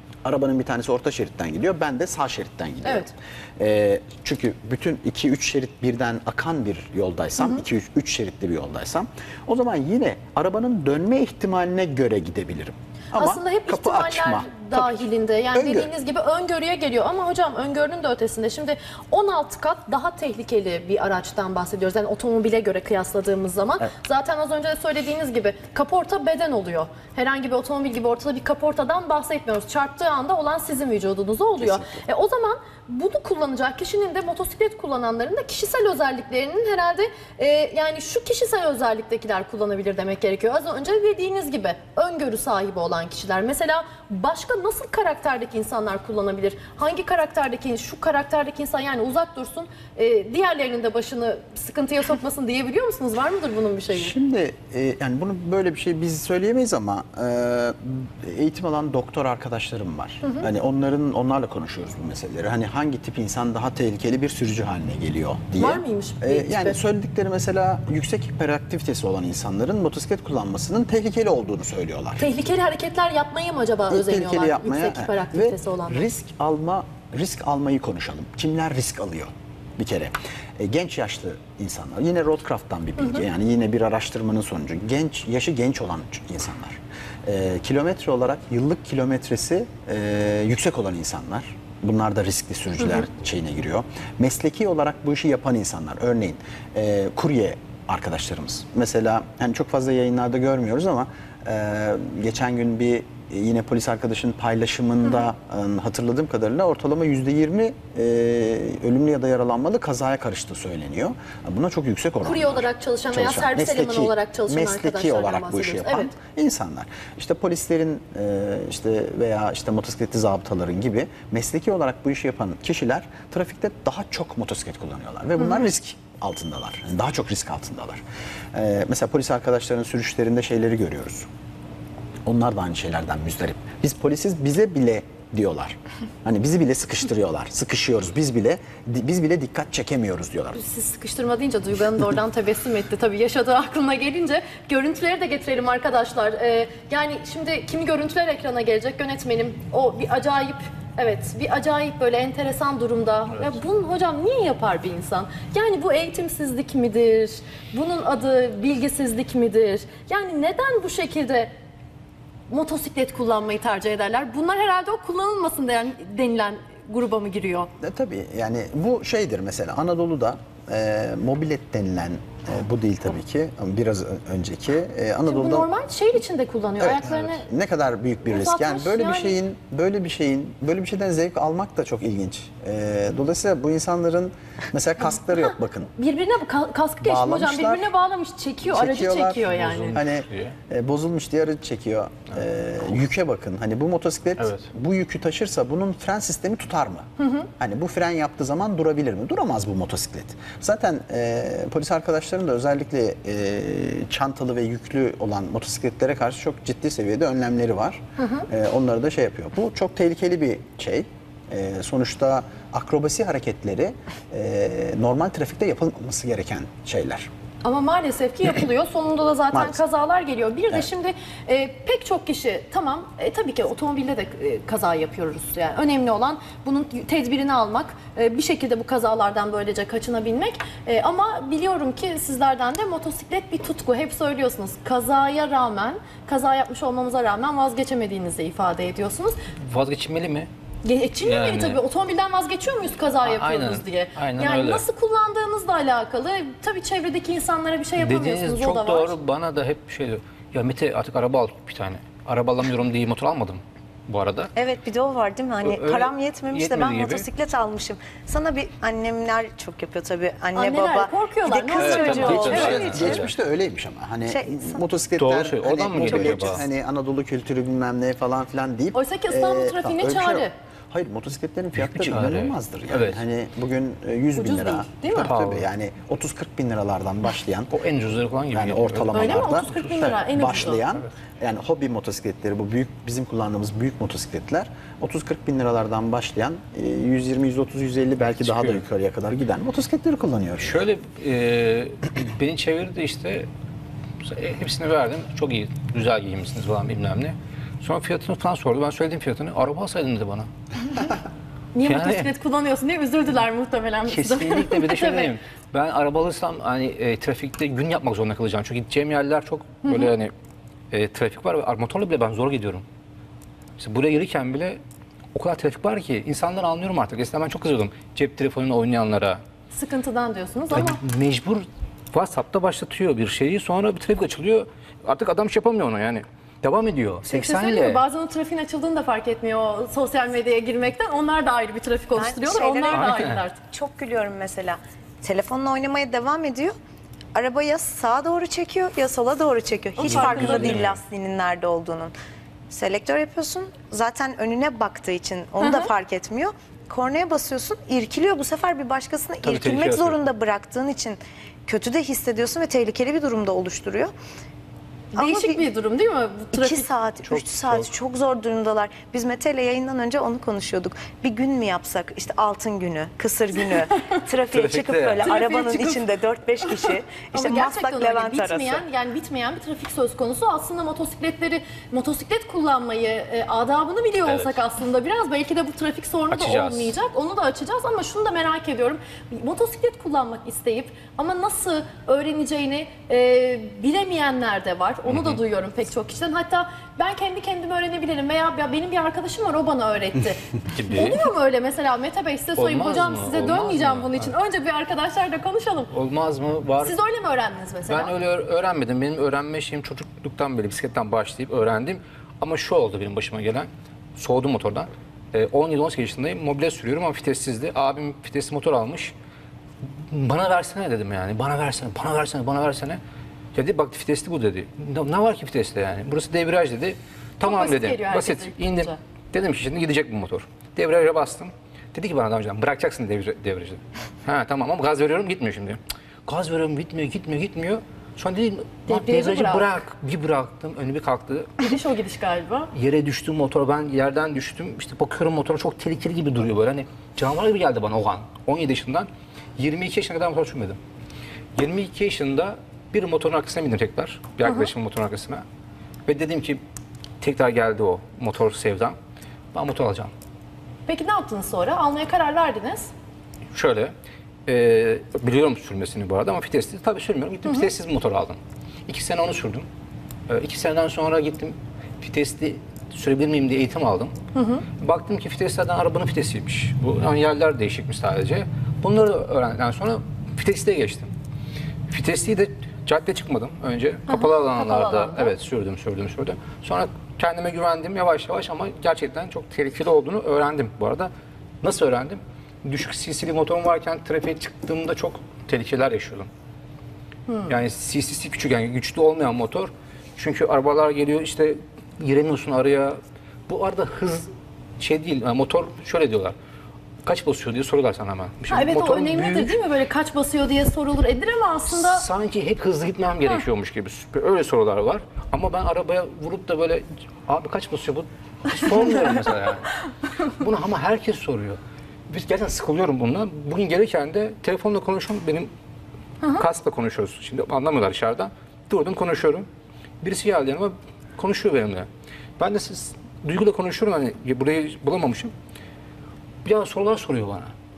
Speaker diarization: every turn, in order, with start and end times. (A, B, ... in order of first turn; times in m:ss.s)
0:00.2-0:15.9 A
0:02.8-0:03.1 B
0:13.1-0:54.1 B
0:31.6-0:32.0 A
0:53.9-1:12.3 A
1:05.6-1:06.8 B
1:12.2-1:16.1 B
1:13.9-2:08.0 A
1:52.2-1:56.1 B
2:08.5-2:11.3 A
2:12.2-2:20.6 A
2:20.5-2:41.5 B
2:42.5-2:47.7 B
2:47.8-2:55.7 A
2:55.3-2:57.4 B
2:56.8-3:05.9 A
2:58.3-2:59.4 B
3:06.0-3:10.0 B
3:07.0-3:07.9 A
3:08.6-3:37.3 A
3:09.5-3:10.5 C
3:14.4-3:14.6 C
3:17.2-3:17.4 B
3:28.2-3:28.4 B
3:37.6-3:59.4 B
3:39.5-3:39.8 A
3:59.7-4:00.5 C
4:00.8-4:09.1 B
4:01.2-4:01.8 C
4:03.2-4:04.8 C
4:08.0-4:14.5 C
4:14.6-4:23.2 D
4:15.6-4:17.2 C
4:20.5-4:22.9 B
4:21.8-4:23.3 C
4:22.3-4:37.7 A
4:24.3-4:24.8 D
4:25.2-4:26.6 C
4:26.0-4:26.6 D
4:28.9-4:30.5 B
4:31.7-4:33.2 C
4:34.4-4:35.3 B
4:35.2-4:35.6 C
4:37.7-4:40.5 C
4:38.5-4:50.8 A
4:39.1-4:40.8 B
4:48.3-4:48.8 C
4:50.6-4:53.5 C
4:54.2-5:00.5 C
5:01.7-5:05.3 B
5:01.8-5:02.3 C
5:04.1-5:10.3 C
5:09.8-5:10.1 B
5:10.9-5:12.8 C
5:13.8-5:14.8 C
5:15.3-5:19.4 C
5:19.7-5:21.0 B
5:20.7-5:28.0 C
5:27.2-5:33.6 B
5:32.1-5:36.7 D
5:32.9-5:33.4 C
5:37.3-5:42.1 D
5:40.0-5:40.8 B
5:40.0-5:41.0 C
5:42.7-5:54.1 D
5:45.6-5:45.9 B
5:49.4-5:50.2 C
5:55.1-5:56.9 B
5:55.2-5:55.6 D
5:56.5-6:08.8 D
5:57.2-5:57.9 C
6:04.5-6:05.6 C
6:05.2-6:06.0 B
6:07.3-6:35.9 B
6:14.2-6:14.6 C
6:16.3-6:16.9 C
6:25.1-6:25.4 C
6:30.7-6:31.2 C
6:32.6-6:34.3 C
6:35.9-6:36.9 C
6:36.8-6:38.1 B
6:37.9-6:49.1 C
6:50.1-6:53.0 C
6:53.5-7:11.7 C
6:57.4-6:59.0 B
7:08.9-7:09.7 B
7:11.6-7:12.7 B
7:12.7-7:20.8 C
7:21.6-7:25.4 C
7:26.1-7:26.6 C
7:27.2-7:29.0 C
7:29.5-7:30.1 C
7:30.9-7:32.9 B
7:33.5-7:33.9 C
7:34.5-7:39.7 C
7:40.3-7:44.1 C
7:44.3-7:44.6 B
7:44.8-7:51.1 C
7:51.9-8:01.1 C
7:54.1-7:55.3 B
8:01.6-8:06.3 C
8:07.4-8:13.0 C
8:13.5-8:14.3 C
8:14.8-8:16.4 C
8:17.0-8:19.5 C
8:18.5-8:22.0 B
8:21.7-8:31.6 C
8:32.1-8:35.5 C
8:36.3-8:39.5 C
8:40.0-8:41.9 C
8:42.4-8:45.3 C
8:46.4-8:47.5 C